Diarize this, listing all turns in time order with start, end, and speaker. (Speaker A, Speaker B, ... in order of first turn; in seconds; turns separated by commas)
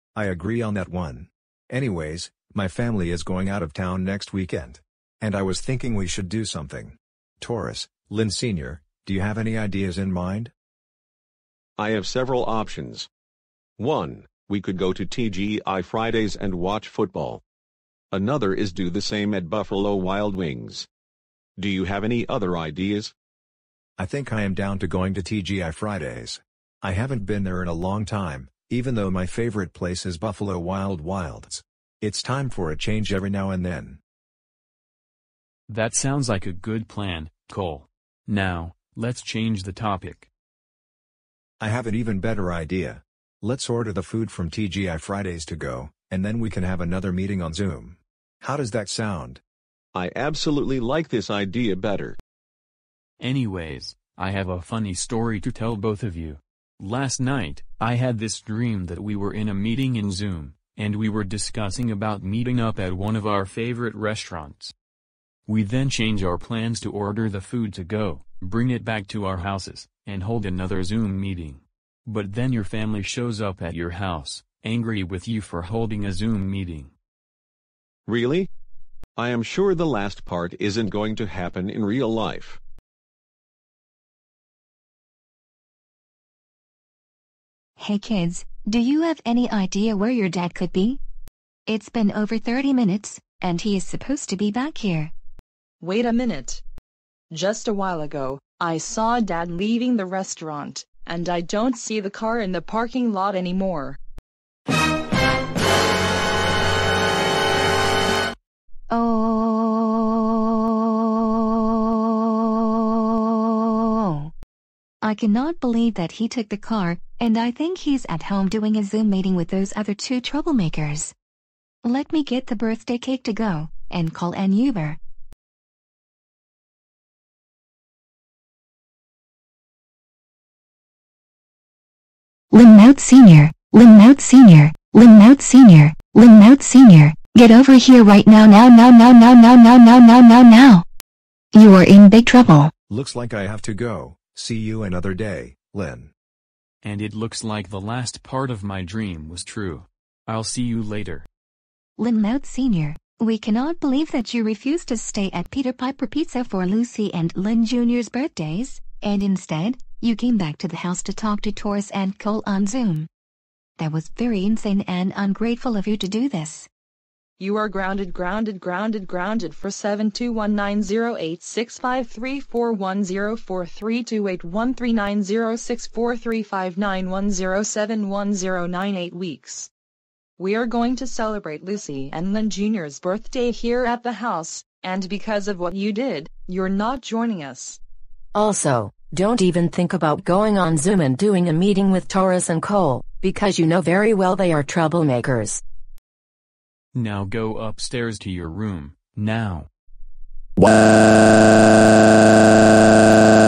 Speaker A: 0.1-10.5, Speaker B: 11.8-13.1, Speaker B: 13.8-17.4, Speaker B: 18.1-20.9, Speaker B: 21.6-23.1, Speaker A: 24.0-34.0, Speaker C: 35.7-40.3, Speaker A: 41.6-49.4, Speaker B: 49.9-52.2, Speaker C: 53.2-64.7, Speaker C: 65.5-76.9, Speaker B: 78.1-78.5, Speaker B: 79.2-82.6, Speaker D: 87.8-91.0, Speaker D: 91.7-95.1, Speaker E: 95.8-96.6, Speaker E: 97.3-104.0, Speaker D: 108.9-114.3, Speaker D: 115.0-121.1, Speaker D: 121.8-125.0, Speaker D: 132.5-140.8, Speaker D: 141.5-142.7, Speaker A: 142.9-146.1, Speaker C: 146.8-151.2, Speaker D: 152.0-163.1, Speaker D: 163.8-166.7, Speaker E: 167.4-179.7, Speaker E: 180.4-187.8, Speaker F: 188.3-193.2, Speaker F: 193.8-195.6, Speaker C: 196.9-199.7